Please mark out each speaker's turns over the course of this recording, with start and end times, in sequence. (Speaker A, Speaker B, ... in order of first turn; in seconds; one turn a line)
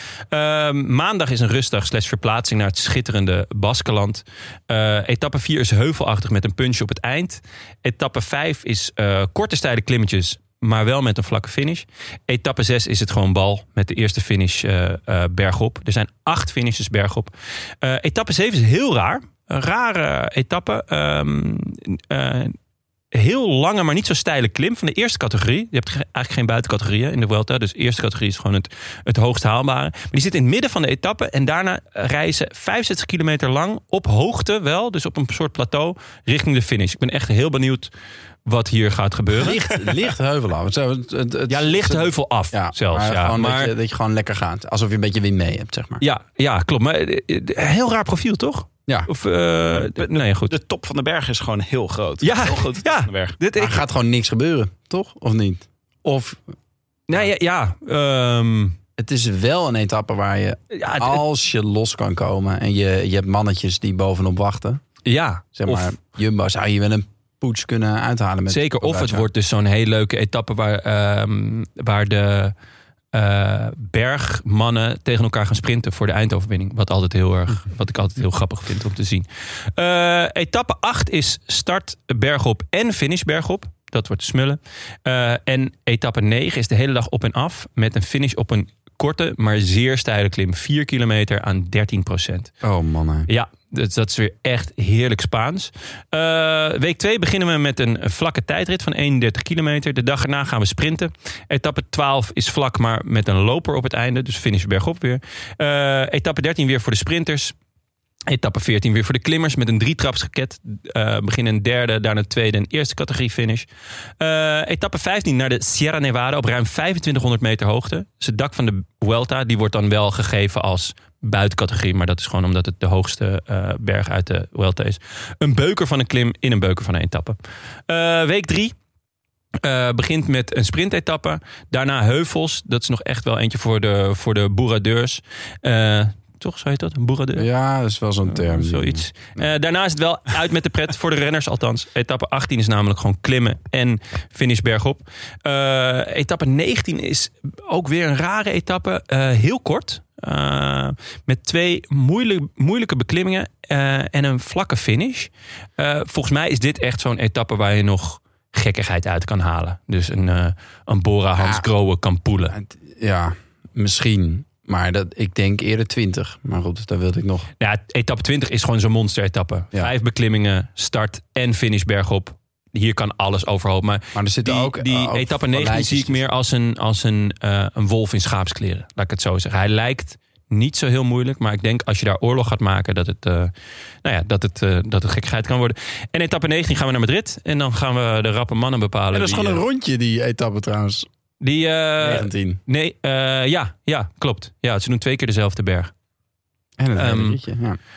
Speaker A: 0.3-22.6
Speaker A: 23.1-37.9
Speaker A: 38.4-39.7
Speaker B: 39.4-46.0
Speaker A: 41.5-43.7
Speaker A: 46.0-50.5
Speaker C: 49.8-53.4
Speaker A: 52.2-53.8
Speaker B: 53.5-56.4
Speaker A: 57.1-58.8
Speaker B: 59.0-64.8
Speaker A: 60.7-61.2
Speaker A: 65.0-66.0
Speaker B: 65.5-69.3
Speaker A: 68.5-72.5
Speaker A: 73.1-92.5
Speaker B: 92.6-93.3
Speaker A: 93.3-107.5
Speaker A: 108.3-113.7
Speaker A: 114.2-127.4
Speaker A: 127.9-128.7
Speaker A: 129.6-137.5
Speaker B: 137.3-139.3
Speaker A: 138.3-162.6
Speaker B: 161.4-161.7
Speaker B: 162.5-167.5
Speaker A: 167.6-183.5
Speaker B: 174.1-176.3
Speaker A: 184.0-189.6
Speaker B: 189.1-191.1
Speaker A: 191.4-195.9
Speaker B: 192.0-192.6
Speaker B: 196.8-197.8
Speaker A: 196.9-197.4